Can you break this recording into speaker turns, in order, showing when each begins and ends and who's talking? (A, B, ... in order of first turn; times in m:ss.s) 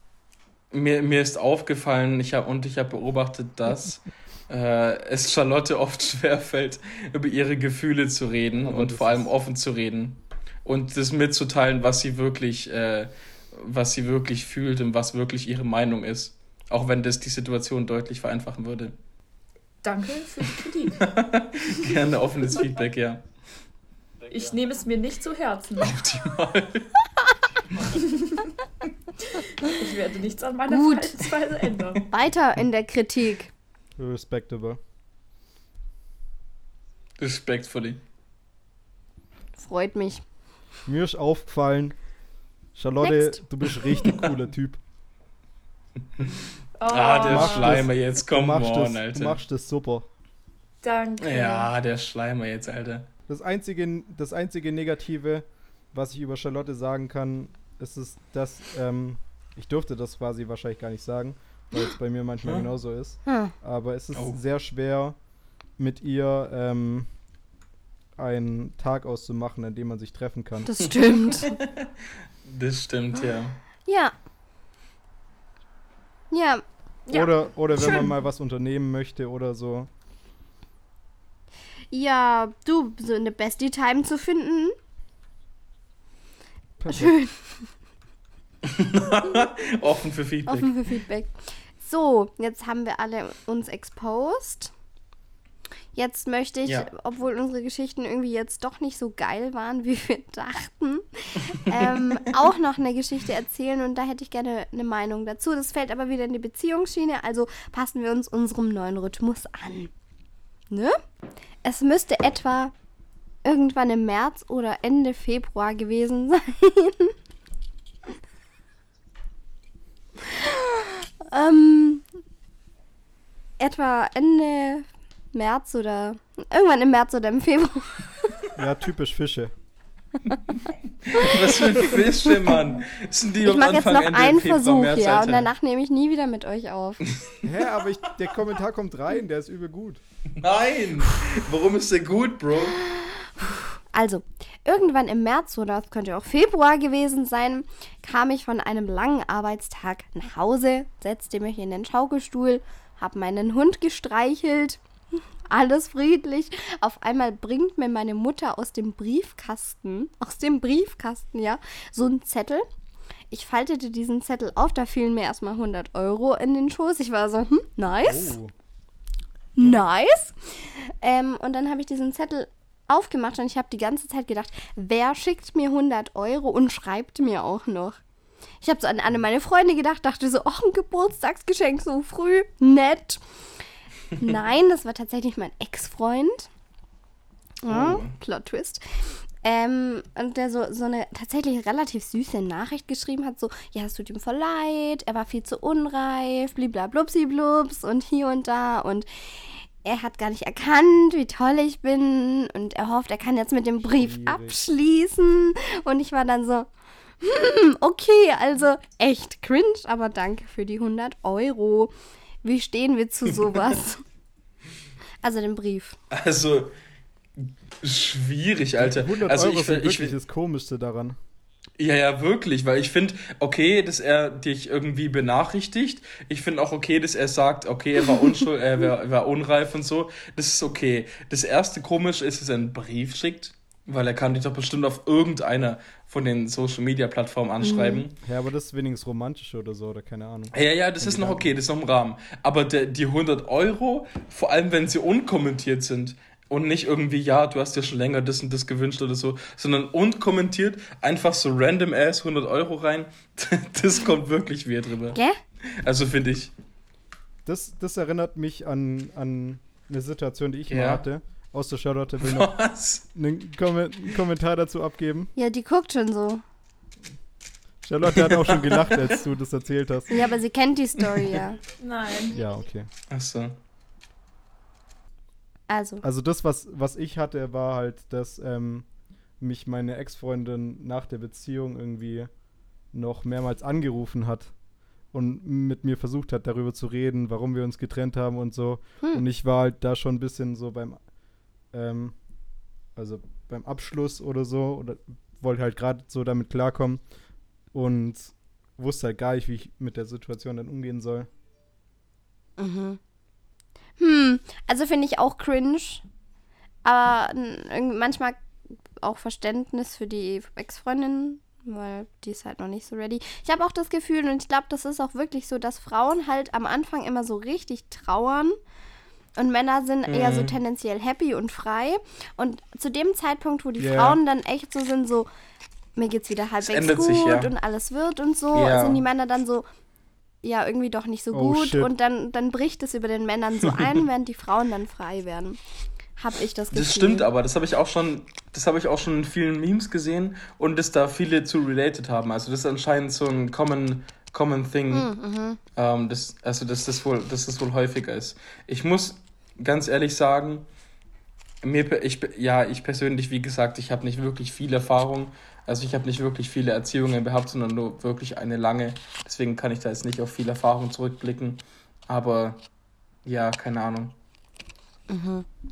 0:00.7-0:19.0 A
0:08.6-0:09.3 B
0:19.8-0:21.0 C
0:21.0-0:23.2 A
0:24.3-0:26.0 C
0:25.8-0:26.9 A
0:27.9-0:28.5 C
0:29.2-0:32.0 C
0:30.7-0:31.2 D
0:32.1-0:33.5 D
0:34.0-0:34.8 B
0:37.2-0:38.0 A
0:39.6-0:40.2 D
0:40.9-0:42.0 B
0:42.7-0:44.8 B
0:43.0-0:43.4 D
0:46.8-0:47.8 C
0:46.9-0:49.4 A
0:47.2-0:50.1 B
0:50.8-0:51.7 C
0:51.2-0:53.1 A
0:53.3-1:05.2 B
1:03.3-1:03.5 D
1:04.1-1:04.4 A
1:05.8-1:07.1 B
1:08.2-1:10.7 B
1:10.6-1:11.6 D
1:10.8-1:11.9 A
1:12.4-1:13.6 A
1:13.8-1:14.1 D
1:16.3-1:16.6 D
1:17.1-1:18.2 C
1:17.1-1:19.9 B
1:21.9-1:24.8 D
1:26.8-1:27.1 B
1:26.9-1:27.7 D
1:28.6-1:30.7 A
1:30.5-1:34.7 D
1:35.9-1:49.9 D
1:36.6-1:36.9 A
1:50.7-1:51.0 D
1:51.6-1:52.7 D
1:53.4-1:57.1 D
2:00.2-2:02.0 D
2:03.6-2:08.4 D
2:08.6-2:09.5 B
2:11.0-2:15.5 A
2:11.1-2:12.1 D
2:13.4-2:17.0 D
2:17.1-2:17.4 A
2:17.4-2:20.0 B
2:20.4-2:22.8 A
2:22.6-2:34.8 D
2:35.5-2:42.6 D
2:43.3-2:48.4 D
2:48.0-2:48.5 B
2:49.6-2:58.0 D
2:58.6-3:03.2 D
3:04.2-3:06.5 D
3:07.6-3:26.7 D
3:07.7-3:08.1 A
3:23.8-3:24.6 B
3:27.2-3:31.9 D
3:32.4-3:34.0 D
3:35.2-3:36.0 D
3:36.1-3:36.7 A
3:37.4-3:40.1 A
3:38.8-3:41.2 B
3:41.8-3:58.2 A
3:57.6-3:58.0 D
3:58.2-4:01.5 B
4:00.5-4:15.2 A
4:15.1-4:15.4 D
4:15.8-4:16.5 A
4:17.4-4:22.5 B
4:20.7-4:21.0 A
4:22.2-4:23.0 A
4:23.1-4:25.3 B
4:25.4-4:26.4 D
4:27.8-4:30.3 B
4:28.1-4:29.2 A
4:30.1-4:31.6 D
4:31.8-4:32.4 C
4:32.3-4:32.9 B
4:33.1-4:33.6 A
4:35.7-4:36.0 D
4:36.0-4:38.9 B
4:39.4-4:42.3 B
4:42.9-4:44.5 B
4:45.1-4:51.0 B
4:51.7-4:52.2 B
4:53.0-4:57.0 B
4:57.7-5:01.3 B
5:02.6-5:03.0 D
5:04.0-5:06.0 D
5:06.8-5:08.4 D
5:09.0-5:18.6 D
5:19.4-5:25.3 D
5:20.1-5:20.6 A
5:23.8-5:24.2 B
5:26.0-5:29.7 D
5:26.6-5:27.5 A
5:28.5-5:29.0 A
5:30.4-5:35.6 D
5:31.3-5:31.9 B
5:36.2-5:37.3 D
5:36.7-5:45.1 A
5:44.9-5:45.6 D
5:45.8-5:50.6 A
5:51.6-6:02.6 A
6:03.2-6:04.1 A
6:05.1-6:05.4 D